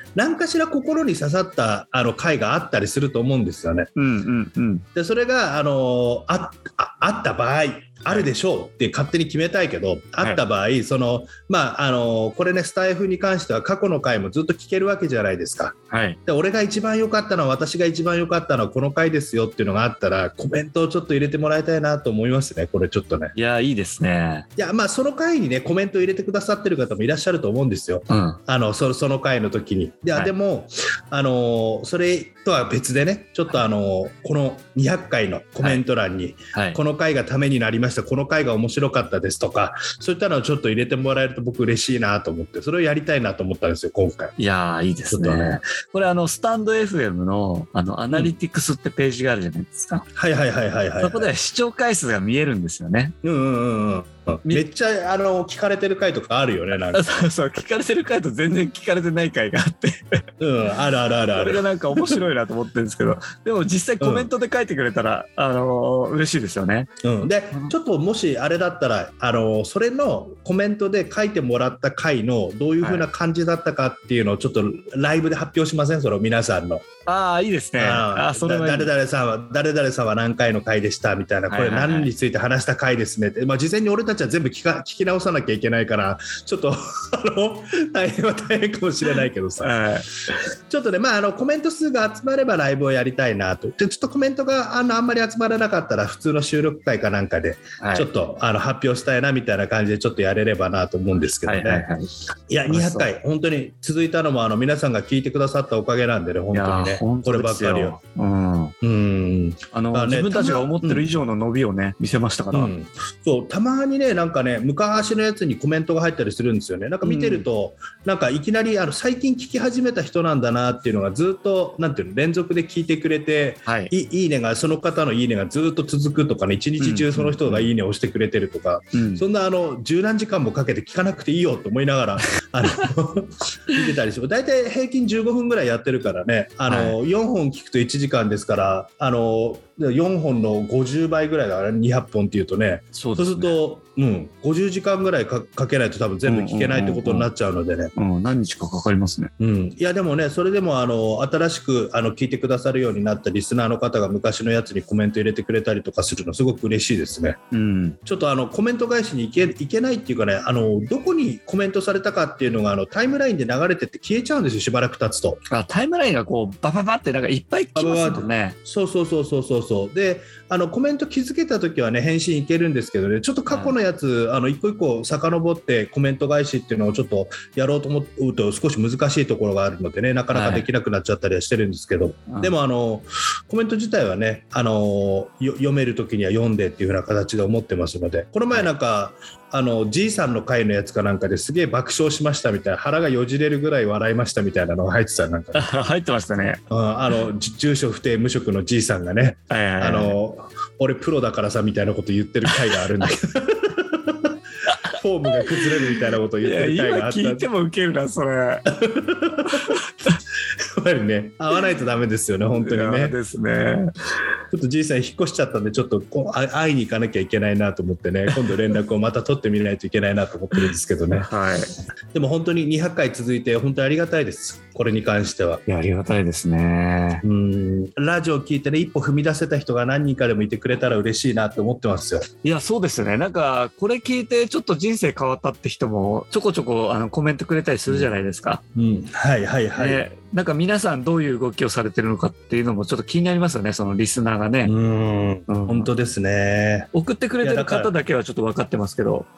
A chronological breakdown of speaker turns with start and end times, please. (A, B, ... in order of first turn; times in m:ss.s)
0:00.2-0:03.9 A
0:04.0-0:04.8 B
0:04.9-0:23.3 A
0:15.9-0:16.2 B
0:23.3-0:24.4 B
0:24.6-0:44.3 A
0:28.1-0:28.4 B
0:36.5-0:36.8 B
0:44.4-0:50.1 B
0:45.1-0:45.6 A
0:50.1-0:51.3 A
0:51.0-0:53.1 B
0:53.2-0:57.0 A
0:56.9-1:00.0 B
1:00.4-1:02.2 A
1:01.3-1:07.7 B
1:04.0-1:04.3 A
1:07.0-1:16.8 A
1:12.8-1:13.1 B
1:17.1-1:18.9 B
1:17.8-1:29.7 A
1:21.5-1:22.1 B
1:29.6-1:30.1 B
1:30.7-1:41.9 A
1:37.8-1:38.1 B
1:41.4-1:42.1 B
1:42.5-1:48.0 A
1:42.7-1:43.1 B
1:46.5-1:48.8 B
1:48.8-1:51.1 A
1:49.7-1:52.7 B
1:52.5-2:27.9 A
1:57.0-1:57.4 B
2:03.6-2:03.9 B
2:06.8-2:07.7 B
2:08.9-2:09.2 B
2:16.7-2:17.0 B
2:23.0-2:23.6 B
2:26.2-2:27.3 B
2:28.0-2:29.3 B
2:29.4-2:37.4 A
2:37.5-2:38.0 B
2:38.0-2:45.4 A
2:45.5-2:48.6 B
2:47.8-3:15.6 A
2:53.5-2:53.8 B
3:00.3-3:00.7 B
3:15.5-3:16.6 B
3:16.7-3:24.3 A
3:19.5-3:20.2 B
3:25.0-3:27.5 A
3:25.4-3:28.7 B
3:28.7-3:29.8 A
3:29.6-3:30.1 B
3:30.8-3:33.2 A
3:32.4-3:33.9 B
3:34.5-3:41.3 A
3:41.1-3:41.7 B
3:42.1-3:45.6 A
3:45.7-3:47.2 B
3:47.2-3:52.3 A
3:52.4-3:58.6 B
3:58.8-4:00.0 A
3:59.8-4:04.7 B
4:04.6-4:06.9 A
4:05.5-4:05.9 B
4:06.9-4:09.3 B
4:07.4-4:07.9 A